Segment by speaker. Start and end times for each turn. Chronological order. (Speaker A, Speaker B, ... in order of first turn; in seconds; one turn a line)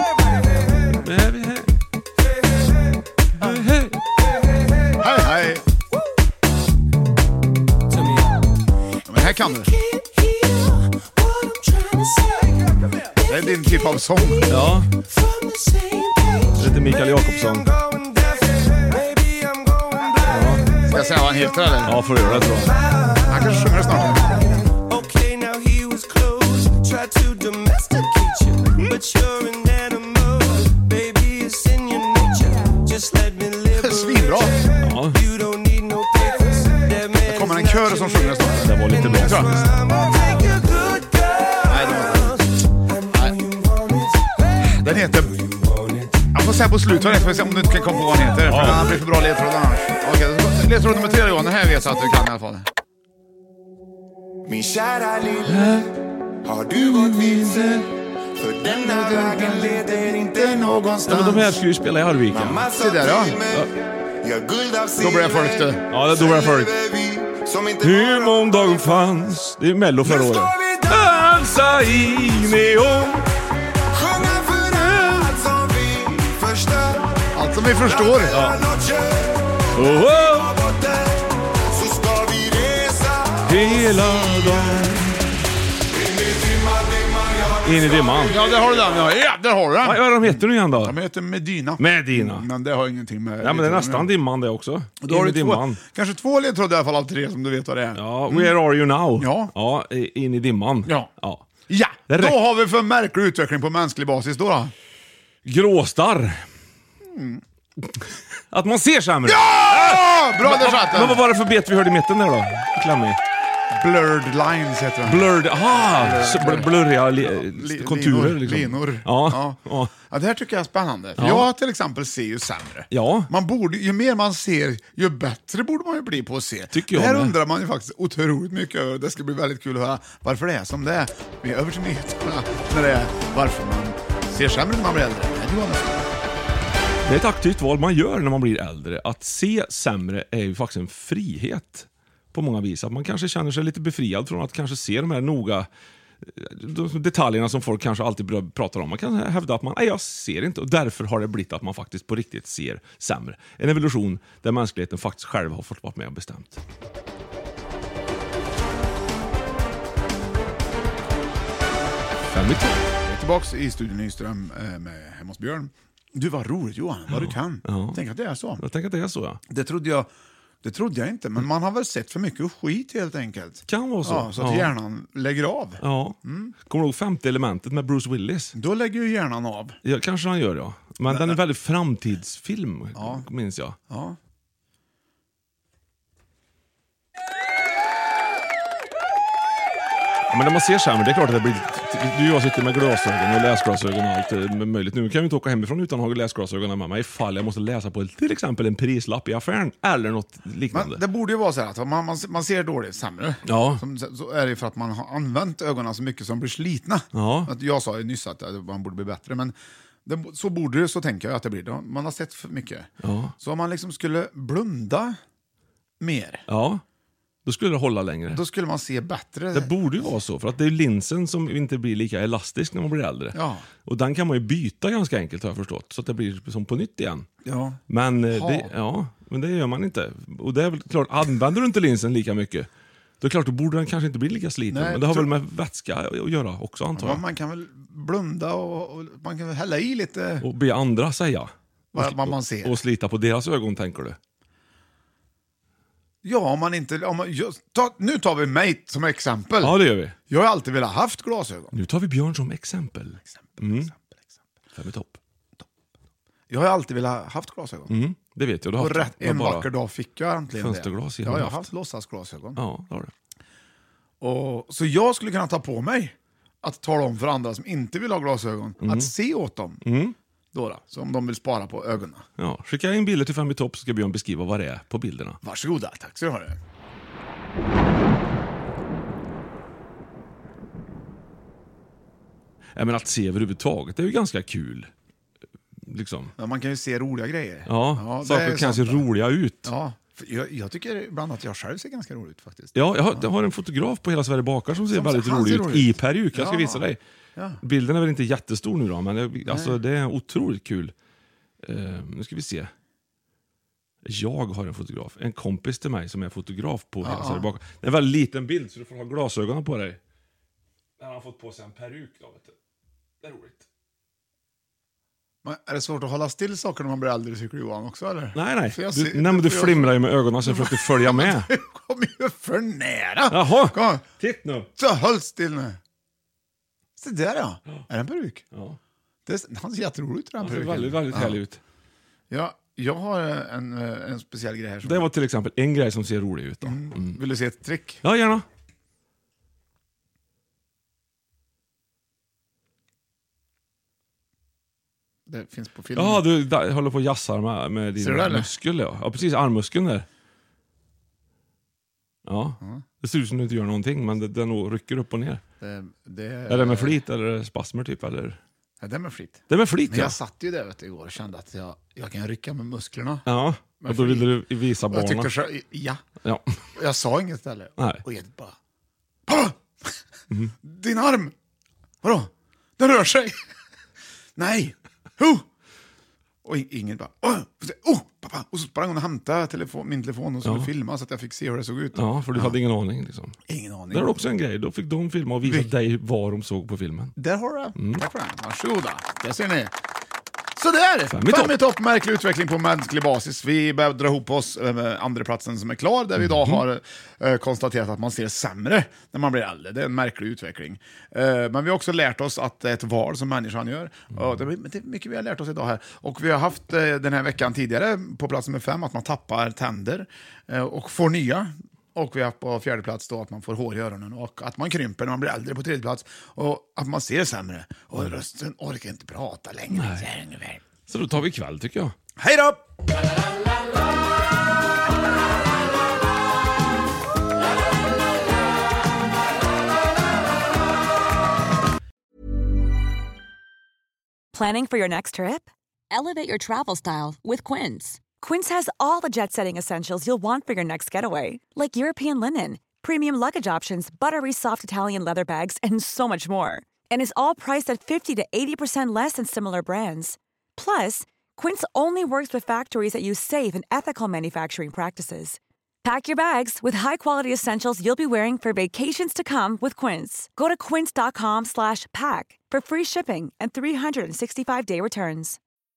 Speaker A: 1.0-1.7
Speaker A: 3.4-4.0
Speaker B: 5.0-5.6
Speaker B: 9.1-9.7
Speaker C: 10.0-12.5
Speaker B: 13.2-14.7
Speaker A: 14.5-14.9
Speaker C: 15.3-16.5
Speaker A: 16.6-17.8
Speaker C: 17.9-20.7
Speaker A: 20.3-20.7
Speaker B: 20.9-22.0
Speaker A: 21.8-22.8
Speaker B: 23.3-24.6
Speaker C: 24.7-34.1
Speaker B: 33.7-34.6
Speaker A: 34.8-35.2
Speaker C: 35.1-38.5
Speaker B: 37.2-39.6
Speaker A: 38.6-39.7
Speaker C: 39.3-42.0
Speaker B: 41.6-42.4
Speaker B: 43.1-43.4
Speaker B: 44.6-45.4
Speaker B: 46.3-52.7
Speaker A: 48.5-48.9
Speaker D: 54.5-55.6
Speaker A: 55.5-55.9
Speaker D: 56.4-57.8
Speaker A: 57.2-57.9
Speaker B: 58.4-61.6
Speaker A: 61.1-62.7
Speaker D: 62.4-63.4
Speaker B: 62.7-63.4
Speaker D: 64.2-65.3
Speaker B: 65.0-65.8
Speaker A: 65.9-66.8
Speaker D: 66.3-68.0
Speaker A: 67.8-73.3
Speaker D: 74.0-77.1
Speaker B: 77.3-78.4
Speaker A: 78.3-78.6
Speaker D: 78.8-79.1
Speaker A: 79.7-80.6
Speaker D: 81.7-83.4
Speaker A: 83.4-85.2
Speaker A: 87.6-88.4
Speaker B: 88.3-94.1
Speaker A: 89.8-91.0
Speaker A: 91.8-92.5
Speaker A: 93.4-95.8
Speaker B: 95.0-98.6
Speaker A: 98.0-101.5
Speaker B: 99.2-99.5
Speaker B: 101.7-104.7
Speaker A: 102.1-102.4
Speaker A: 105.5-106.5
Speaker B: 107.0-107.4
Speaker A: 107.8-113.2
Speaker B: 109.2-111.2
Speaker B: 113.7-136.1
Speaker A: 115.0-120.0
Speaker A: 121.2-121.5
Speaker A: 122.9-123.3
Speaker A: 126.7-127.3
Speaker A: 137.1-145.7
Speaker A: 146.2-156.6
Speaker A: 162.3-162.9
Speaker B: 163.0-168.6
Speaker A: 167.1-169.4
Speaker B: 169.5-170.1
Speaker B: 170.6-176.6
Speaker A: 173.7-174.7
Speaker A: 175.8-178.5
Speaker B: 178.6-179.8
Speaker A: 179.8-183.8
Speaker B: 181.1-181.4
Speaker B: 182.9-183.3
Speaker B: 183.9-184.2
Speaker A: 190.3-201.0
Speaker B: 200.7-209.6
Speaker A: 203.5-203.8
Speaker A: 207.1-207.5
Speaker B: 210.1-212.9
Speaker A: 213.0-213.3
Speaker B: 213.4-215.2
Speaker B: 216.0-216.4
Speaker A: 216.5-216.8
Speaker A: 217.4-218.4
Speaker B: 218.3-219.7
Speaker A: 219.5-227.3
Speaker B: 223.3-223.7
Speaker B: 227.4-227.8
Speaker A: 227.9-232.7
Speaker B: 228.3-228.7
Speaker A: 233.2-237.2
Speaker B: 234.7-235.3
Speaker B: 236.9-240.5
Speaker A: 240.4-244.2
Speaker B: 241.9-242.8
Speaker B: 246.2-249.8
Speaker A: 249.6-250.2
Speaker B: 250.3-251.7
Speaker A: 251.7-253.9
Speaker B: 253.2-254.4
Speaker A: 254.8-255.2
Speaker B: 256.5-257.9
Speaker A: 257.9-259.7
Speaker B: 258.8-262.6
Speaker A: 260.5-261.7
Speaker A: 262.6-263.1
Speaker B: 264.2-269.8
Speaker A: 268.8-269.1
Speaker A: 269.8-270.2
Speaker B: 270.5-272.2
Speaker A: 272.4-275.4
Speaker B: 275.4-276.6
Speaker A: 282.8-284.9
Speaker A: 285.8-286.3
Speaker B: 286.4-289.1
Speaker A: 287.7-289.7
Speaker B: 289.6-293.3
Speaker A: 292.7-297.0
Speaker B: 294.9-297.6
Speaker A: 297.6-300.9
Speaker B: 299.5-299.8
Speaker A: 301.6-302.7
Speaker A: 304.0-310.0
Speaker B: 307.0-307.5
Speaker A: 311.0-312.6
Speaker A: 313.2-313.7
Speaker B: 315.4-324.1
Speaker A: 318.4-321.5
Speaker A: 323.3-324.7
Speaker B: 324.8-325.8
Speaker B: 327.0-328.4
Speaker A: 328.5-328.8
Speaker B: 329.3-331.4
Speaker A: 330.4-331.6
Speaker B: 332.3-335.1
Speaker A: 334.8-337.2
Speaker B: 336.6-338.0
Speaker A: 338.0-338.4
Speaker B: 345.3-346.3
Speaker A: 345.9-350.1
Speaker B: 348.0-348.5
Speaker A: 352.3-355.4
Speaker B: 355.6-357.0
Speaker A: 356.5-358.4
Speaker B: 358.8-363.2
Speaker A: 359.5-360.2
Speaker A: 363.3-365.3
Speaker B: 363.8-364.3
Speaker B: 364.9-366.0
Speaker A: 366.2-366.6
Speaker B: 366.8-368.6
Speaker B: 369.3-370.0
Speaker B: 370.6-371.3
Speaker B: 372.0-373.5
Speaker B: 374.4-375.4
Speaker B: 376.4-382.6
Speaker A: 380.4-380.7
Speaker A: 381.9-383.4
Speaker B: 383.5-384.1
Speaker A: 383.9-387.2
Speaker B: 385.4-385.7
Speaker B: 387.2-389.7
Speaker A: 387.8-388.0
Speaker B: 390.6-420.6
Speaker A: 391.1-391.6
Speaker A: 419.7-420.1
Speaker A: 420.9-421.9
Speaker B: 422.2-422.6
Speaker E: 434.3-465.4